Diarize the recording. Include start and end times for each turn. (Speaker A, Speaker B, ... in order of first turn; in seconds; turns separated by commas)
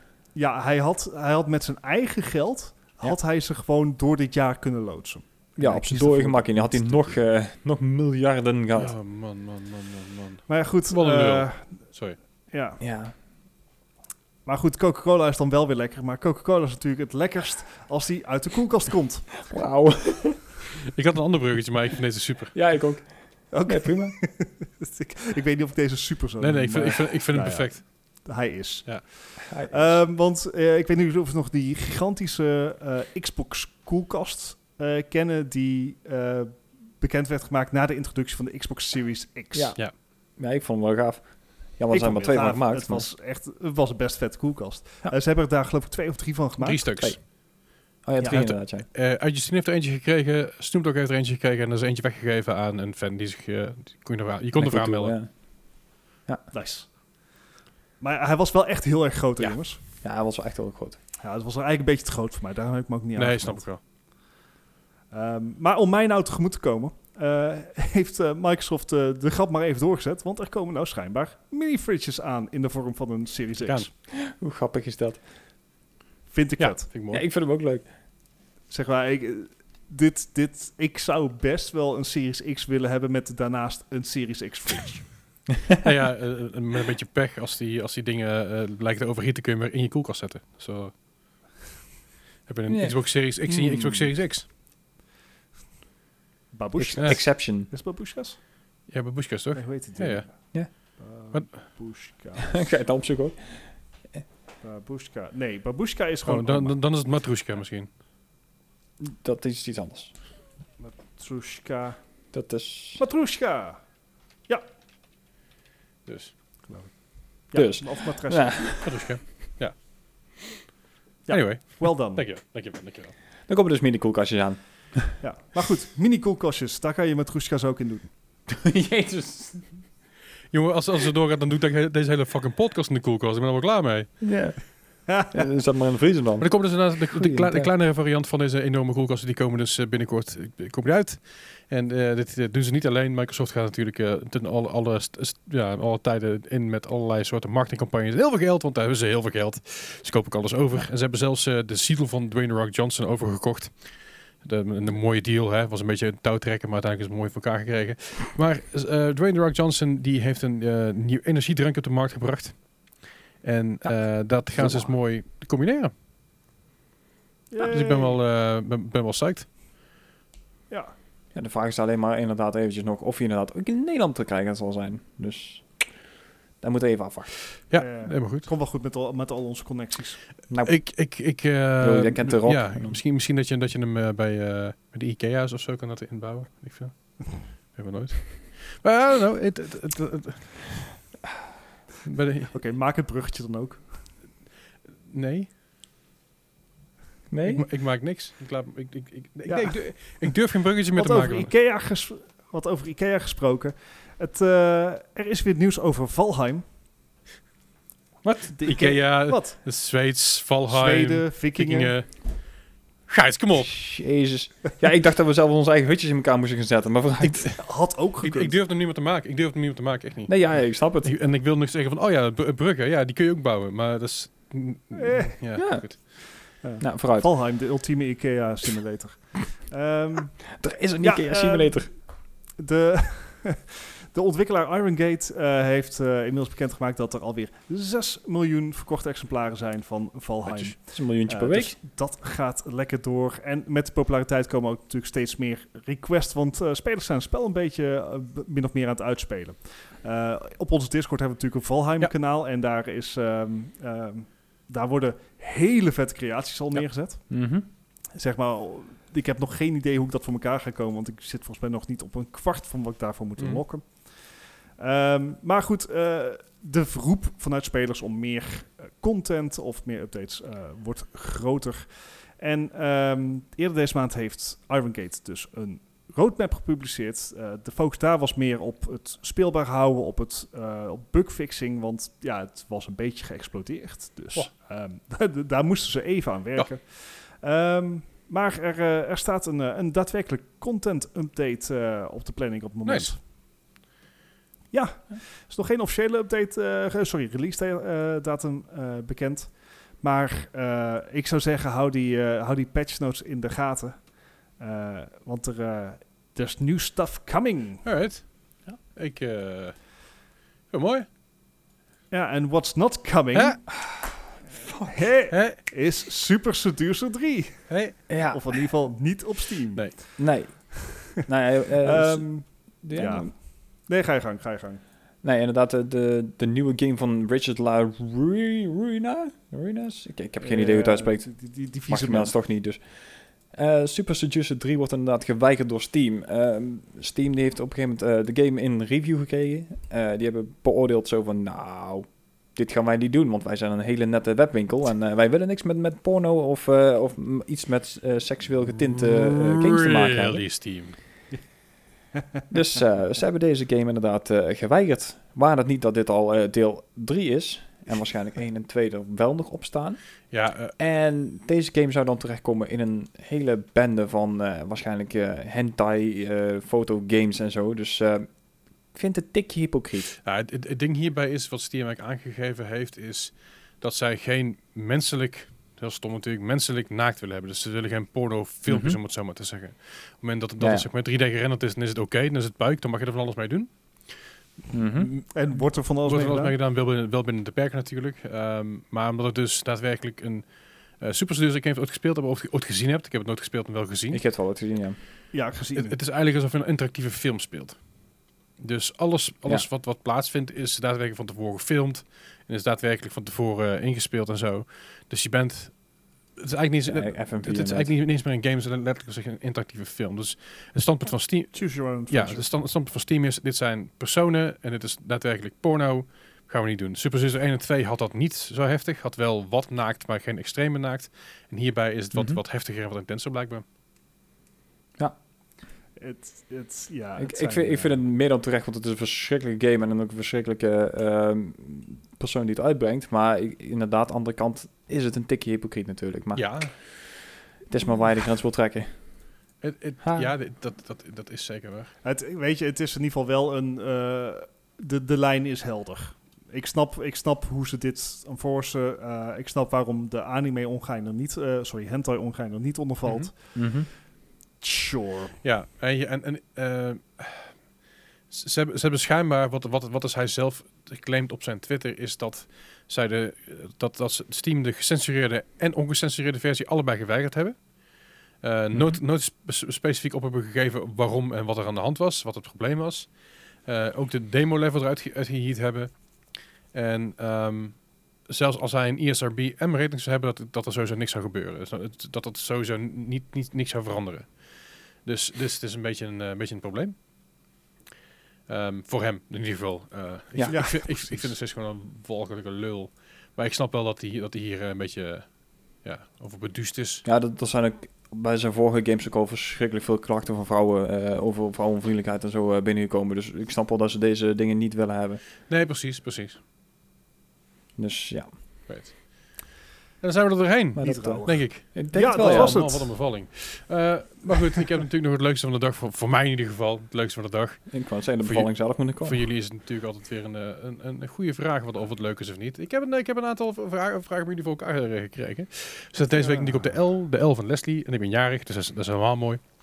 Speaker A: 0.3-7.2, Speaker B: 5.6-8.9, Speaker C: 8.8-12.2, Speaker A: 10.5-11.8, Speaker A: 12.5-12.8, Speaker B: 12.8-13.2, Speaker A: 14.4-19.5, Speaker B: 19.5-20.5, Speaker C: 20.9-22.6, Speaker B: 22.5-24.2, Speaker A: 23.5-39.8, Speaker C: 26.4-27.9, Speaker B: 29.5-30.0, Speaker B: 39.5-43.1, Speaker A: 41.9-47.0, Speaker C: 46.6-47.3, Speaker B: 47.0-47.3, Speaker B: 48.0-48.9, Speaker C: 48.2-55.2, Speaker B: 54.6-56.5, Speaker A: 56.5-56.9, Speaker A: 58.0-59.8, Speaker B: 60.0-61.0, Speaker A: 61.2-63.6, Speaker C: 63.2-63.8, Speaker A: 65.1-73.9, Speaker B: 74.1-75.2, Speaker A: 76.3-76.9, Speaker C: 76.6-77.2, Speaker B: 77.1-77.9, Speaker A: 78.7-85.1, Speaker C: 85.8-91.0, Speaker C: 92.5-94.5, Speaker B: 92.7-93.1, Speaker A: 93.5-94.1, Speaker A: 96.5-98.4, Speaker B: 96.8-97.7, Speaker C: 98.9-100.5, Speaker A: 99.5-100.4, Speaker A: 101.0-102.6, Speaker B: 102.4-104.2, Speaker A: 104.6-106.8, Speaker C: 106.3-107.9, Speaker B: 109.0-110.1, Speaker A: 110.8-112.0, Speaker B: 112.3-113.0, Speaker A: 113.0-113.8, Speaker C: 116.1-116.3, Speaker A: 116.7-118.8, Speaker B: 117.5-119.1, Speaker C: 118.8-119.8, Speaker A: 121.3-122.2, Speaker C: 121.3-123.1, Speaker B: 123.5-125.2, Speaker A: 125.2-128.1, Speaker B: 128.5-129.8, Speaker C: 130.5-134.2, Speaker B: 134.2-137.7, Speaker A: 135.1-135.3, Speaker C: 136.4-165.9, Speaker B: 164.5-164.9, Speaker A: 167.5-168.2, Speaker C: 167.6-169.5, Speaker B: 171.3-175.7, Speaker B: 176.6-177.3, Speaker C: 177.6-178.5, Speaker A: 177.8-180.2, Speaker B: 180.5-180.9, Speaker C: 180.6-190.8, Speaker B: 181.8-183.0, Speaker C: 192.0-192.5, Speaker A: 192.5-194.0, Speaker C: 195.1-195.5, Speaker B: 197.3-197.7, Speaker C: 197.4-201.5, Speaker A: 199.5-200.4, Speaker A: 200.9-206.6, Speaker C: 208.2-212.4, Speaker A: 208.6-209.7, Speaker A: 210.7-211.9, Speaker C: 213.1-213.8, Speaker B: 213.6-217.6, Speaker C: 217.3-217.6, Speaker A: 217.4-218.6, Speaker C: 218.2-226.0, Speaker B: 220.3-221.2, Speaker A: 224.9-225.4, Speaker B: 225.6-225.9, Speaker A: 226.5-231.9, Speaker B: 226.8-227.3, Speaker B: 230.6-231.9, Speaker A: 232.6-257.4, Speaker C: 240.5-240.7, Speaker B: 240.9-241.8, Speaker B: 257.3-257.7, Speaker A: 258.1-293.2, Speaker C: 292.9-293.1, Speaker A: 294.7-307.9, Speaker C: 307.8-309.9, Speaker C: 310.7-311.1, Speaker A: 312.1-313.7, Speaker C: 313.3-313.6, Speaker B: 313.7-314.9, Speaker A: 314.9-320.2, Speaker C: 315.3-315.6, Speaker C: 317.7-318.0, Speaker B: 318.1-318.6, Speaker B: 320.2-323.3, Speaker A: 320.8-321.1, Speaker A: 321.8-324.8, Speaker B: 325.2-350.4, Speaker A: 330.4-332.3, Speaker C: 348.9-351.0, Speaker B: 352.5-360.0, Speaker C: 360.3-360.8, Speaker B: 360.8-368.3, Speaker B: 368.9-370.1, Speaker C: 370.2-384.1, Speaker B: 378.7-379.0, Speaker B: 380.6-380.9, Speaker B: 384.7-385.1, Speaker C: 385.0-385.3, Speaker A: 385.3-386.5, Speaker C: 386.0-390.5, Speaker C: 391.0-394.2, Speaker B: 394.1-395.0, Speaker A: 395.3-396.0, Speaker C: 395.8-397.8, Speaker C: 398.6-405.8, Speaker C: 406.4-423.6, Speaker B: 406.9-407.9, Speaker A: 411.5-412.5, Speaker B: 422.1-422.4, Speaker A: 426.0-427.9, Speaker B: 427.2-436.8, Speaker C: 436.4-436.7, Speaker B: 437.7-438.9, Speaker C: 439.6-441.9, Speaker B: 440.0-440.3, Speaker A: 442.0-453.6, Speaker C: 453.1-453.3, Speaker B: 453.6-453.9, Speaker A: 454.6-455.4, Speaker C: 455.4-457.6, Speaker C: 458.3-467.7, Speaker C: 468.4-487.0, Speaker B: 468.8-469.0, Speaker C: 488.5-497.1, Speaker A: 490.5-491.3, Speaker B: 497.1-505.2, Speaker C: 505.5-506.4, Speaker B: 507.8-508.3, Speaker C: 508.7-509.4, Speaker C: 510.0-529.4, Speaker B: 510.8-512.7, Speaker A: 510.8-513.0, Speaker B: 517.7-519.2, Speaker A: 526.2-526.7